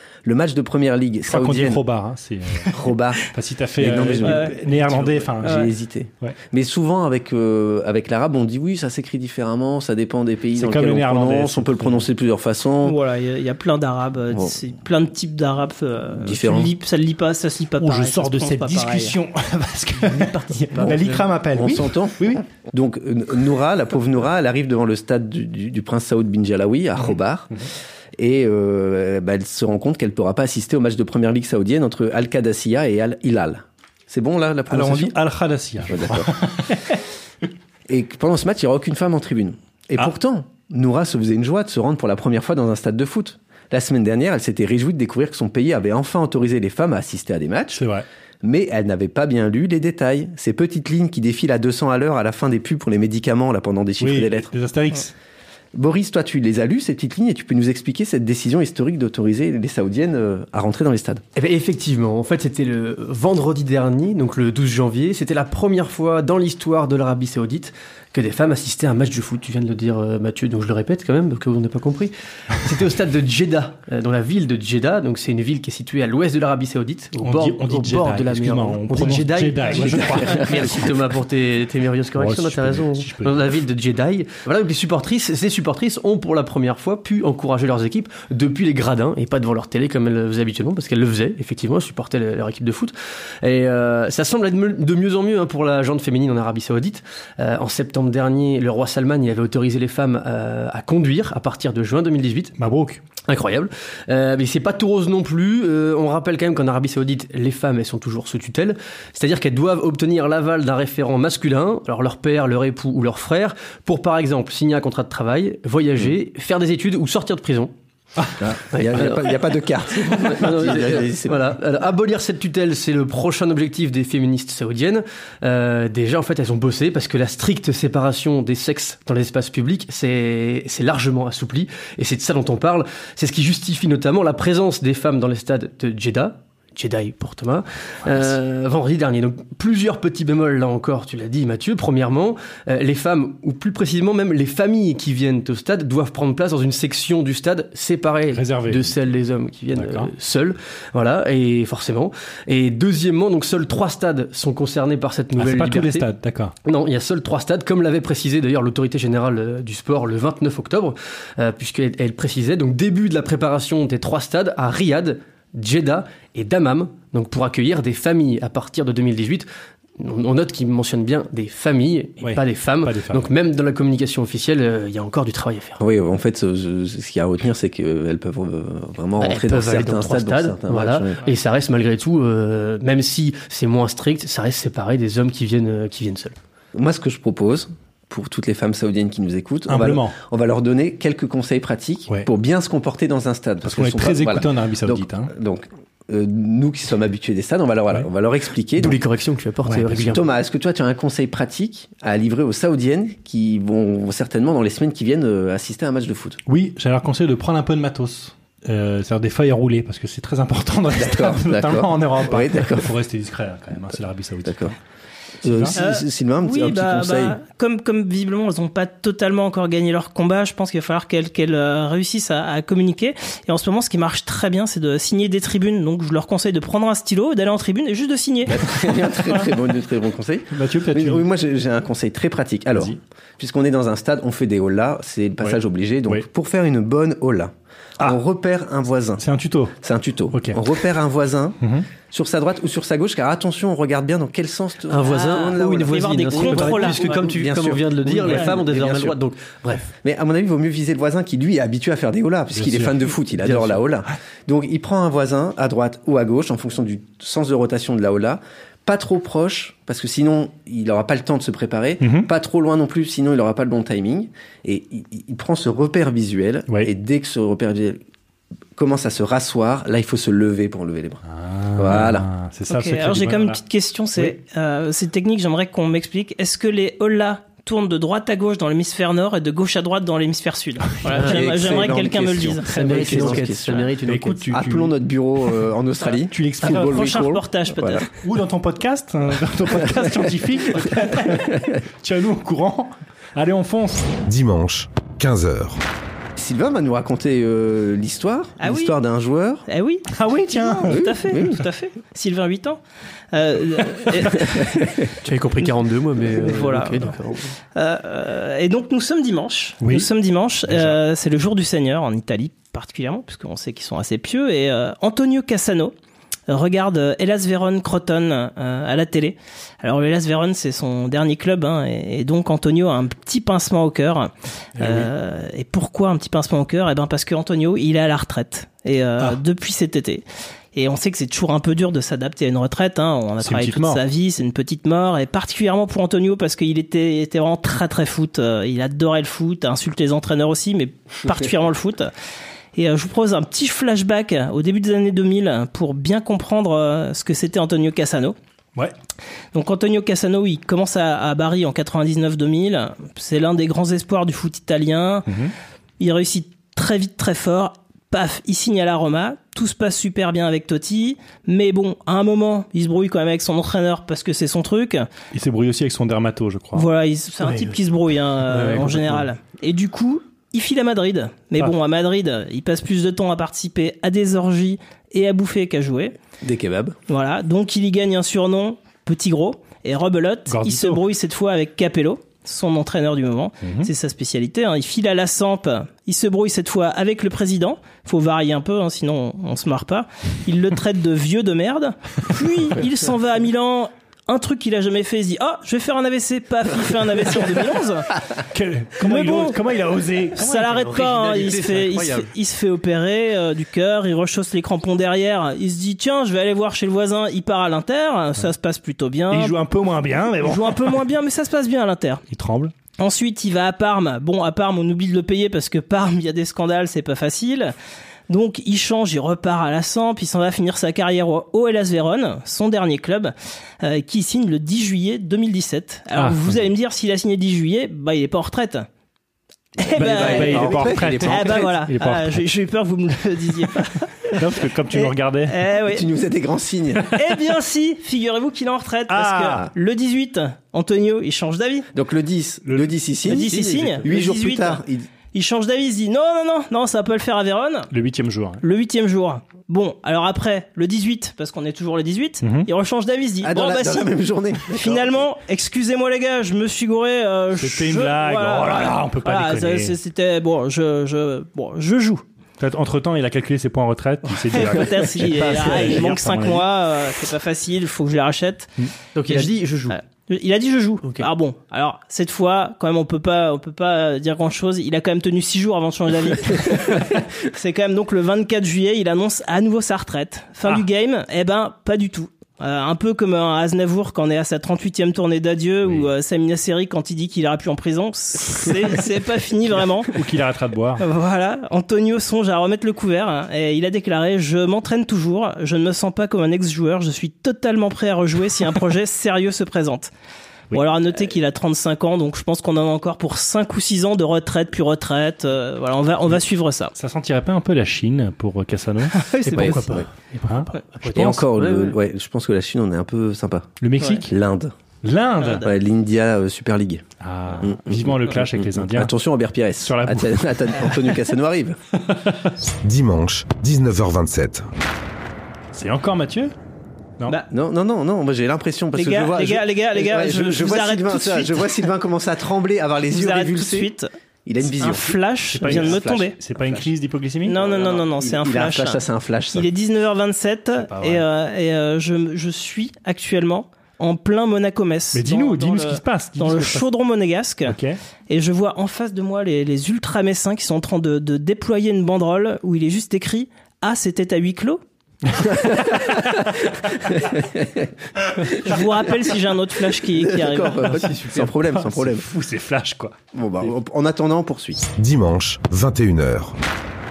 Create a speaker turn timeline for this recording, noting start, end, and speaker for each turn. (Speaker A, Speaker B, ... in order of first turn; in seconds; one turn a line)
Speaker A: 0.2-1.8
Speaker B: 1.3-2.7
Speaker A: 2.7-13.0
Speaker B: 3.3-5.7
Speaker C: 4.2-4.7
Speaker C: 5.4-5.7
Speaker B: 10.6-12.0
Speaker C: 12.8-19.1
Speaker A: 16.1-16.7
Speaker B: 17.8-22.4
Speaker D: 20.0-21.3
Speaker A: 21.5-27.5
Speaker A: 28.2-35.2
Speaker B: 34.7-36.9
Speaker A: 35.9-36.3
Speaker A: 37.9-47.8
Speaker B: 47.8-48.0
Speaker A: 48.4-54.5
Speaker B: 54.0-55.1
Speaker A: 55.7-61.2
Speaker D: 61.4-102.5
Speaker B: 77.2-80.9
Speaker B: 82.2-83.5
Speaker B: 102.6-103.0
Speaker D: 103.3-117.7
Speaker A: 118.4-121.6
Speaker D: 118.7-119.4
Speaker D: 120.0-156.1
Speaker B: 148.3-148.9
Speaker B: 149.7-150.1
Speaker B: 155.4-156.5
Speaker D: 156.6-169.5
Speaker D: 170.0-175.8
Speaker B: 172.2-173.3
Speaker A: 175.8-181.2
Speaker D: 179.2-186.3
Speaker A: 186.7-199.0
Speaker B: 189.7-190.2
Speaker B: 193.6-195.3
Speaker D: 198.8-200.2
Speaker B: 199.6-200.1
Speaker A: 200.1-206.4
Speaker B: 206.5-214.8
Speaker A: 210.9-212.9
Speaker A: 214.4-214.7
Speaker A: 215.4-217.4
Speaker B: 215.4-215.8
Speaker C: 215.8-228.7
Speaker A: 228.5-239.2
Speaker B: 230.5-231.2
Speaker B: 235.4-236.2
Speaker B: 239.2-239.7
Speaker A: 239.8-241.6
Speaker B: 240.3-240.6
Speaker B: 241.6-241.8
Speaker A: 242.1-249.2
Speaker D: 244.9-249.9
Speaker C: 245.0-247.2
Speaker A: 250.0-268.0
Speaker B: 252.5-253.1
Speaker D: 253.4-253.8
Speaker B: 262.0-262.3
Speaker A: 268.8-271.2
Speaker B: 271.3-273.6
Speaker A: 271.8-272.2
Speaker C: 272.7-283.4
Speaker A: 281.1-283.9
Speaker D: 281.1-281.9
Speaker D: 282.7-284.6
Speaker B: 284.0-284.9
Speaker A: 284.5-288.1
Speaker B: 286.3-287.3
Speaker C: 286.6-288.1
Speaker B: 288.2-294.1
Speaker E: 294.2-295.8
Speaker A: 296.4-299.6
Speaker C: 298.6-298.9
Speaker C: 299.7-302.8
Speaker B: 300.1-301.0
Speaker A: 300.8-301.6
Speaker C: 303.3-304.8
Speaker A: 304.3-305.1
Speaker D: 305.2-307.5
Speaker C: 306.4-307.1
Speaker C: 307.7-315.9
Speaker B: 309.8-310.1
Speaker B: 310.7-311.0
Speaker C: 316.5-342.1
Speaker B: 324.8-325.1
Speaker B: 333.4-334.0
Speaker C: 342.7-348.4
Speaker C: 349.5-355.3
Speaker B: 355.3-355.5
Speaker C: 356.0-365.1
Speaker B: 365.3-366.9
Speaker C: 366.7-376.1
Speaker D: 367.4-367.7
Speaker D: 368.5-369.3
Speaker A: 376.4-376.9
Speaker C: 377.1-398.1
Speaker B: 380.5-381.0
Speaker B: 383.6-383.9
Speaker B: 398.5-400.7
Speaker C: 399.0-399.6
Speaker C: 400.4-409.6
Speaker D: 400.5-402.3
Speaker B: 409.3-411.0
Speaker C: 410.4-412.2
Speaker B: 412.3-412.7
Speaker C: 413.0-417.7
Speaker C: 418.3-428.9
Speaker B: 426.1-426.5
Speaker C: 429.8-434.4
Speaker A: 429.9-431.7
Speaker B: 430.0-432.4
Speaker B: 434.3-435.5
Speaker C: 434.9-436.1
Speaker A: 435.8-437.1
Speaker C: 437.1-441.9
Speaker B: 439.1-439.7
Speaker A: 441.9-445.1
Speaker B: 442.6-442.9
Speaker C: 443.3-444.8
Speaker C: 445.3-447.9
Speaker B: 447.9-448.6
Speaker C: 448.6-454.1
Speaker B: 452.4-452.7
Speaker A: 453.4-455.2
Speaker C: 454.7-462.2
Speaker B: 457.6-459.9
Speaker B: 462.6-466.6
Speaker C: 464.5-468.7
Speaker D: 465.5-466.1
Speaker D: 469.1-470.0
Speaker C: 469.3-490.1
Speaker B: 490.1-491.0
Speaker C: 491.0-500.1
Speaker C: 500.7-506.9
Speaker B: 506.9-509.9
Speaker C: 509.1-509.8
Speaker D: 509.5-511.9
Speaker A: 509.6-510.1
Speaker B: 510.4-511.4
Speaker A: 511.0-514.7
Speaker B: 513.8-514.3
Speaker B: 515.0-515.7
Speaker C: 515.4-515.7
Speaker A: 515.6-517.0
Speaker B: 517.2-519.1
Speaker A: 517.6-521.8
Speaker B: 519.8-521.0
Speaker E: 522.8-524.7
Speaker B: 525.7-526.5
Speaker A: 527.5-533.9
Speaker C: 528.9-531.9
Speaker C: 533.1-534.1
Speaker A: 534.5-536.9
Speaker C: 534.7-536.3
Speaker B: 535.5-537.5
Speaker C: 537.4-539.0
Speaker A: 537.5-539.7
Speaker C: 539.5-547.8
Speaker B: 540.8-541.2
Speaker B: 545.1-546.8
Speaker B: 547.7-548.0
Speaker C: 548.3-554.8
Speaker A: 555.5-556.2
Speaker A: 557.1-557.9
Speaker C: 558.6-561.0
Speaker A: 560.2-562.3
Speaker D: 560.9-561.5
Speaker B: 561.7-563.1
Speaker A: 563.3-564.8
Speaker E: 564.8-566.5